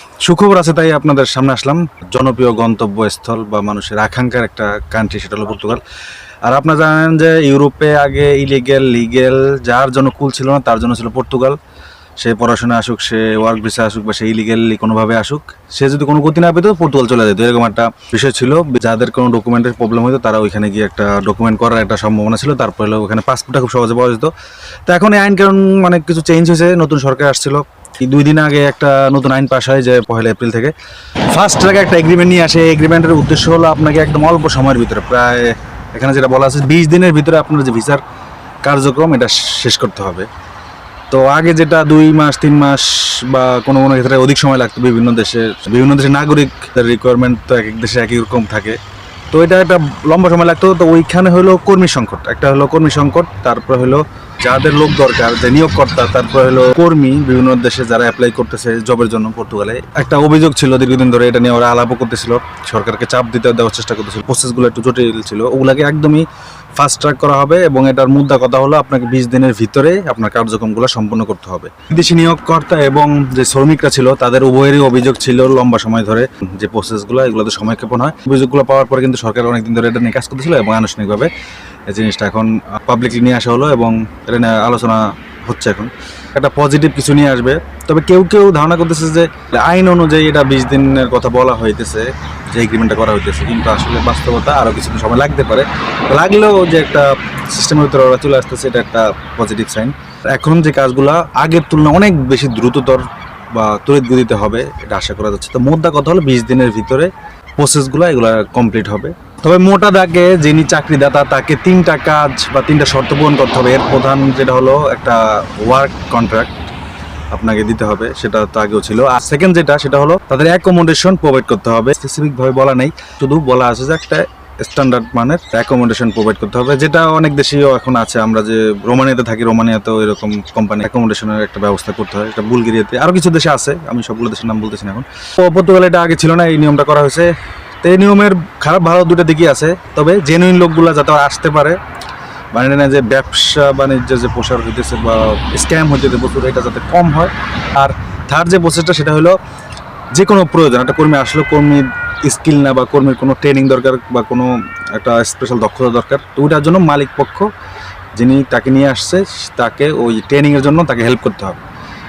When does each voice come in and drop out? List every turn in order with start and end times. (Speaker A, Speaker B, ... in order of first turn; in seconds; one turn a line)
Speaker A: 0.2-5.8
Speaker A: 6.4-11.6
Speaker A: 12.2-24.3
Speaker A: 24.9-30.7
Speaker A: 31.3-38.0
Speaker A: 38.6-40.3
Speaker A: 41.1-48.8
Speaker A: 49.3-81.3
Speaker A: 81.9-116.7
Speaker A: 117.3-137.3
Speaker A: 137.8-141.8
Speaker A: 142.5-149.4
Speaker A: 150.1-157.5
Speaker A: 158.2-161.6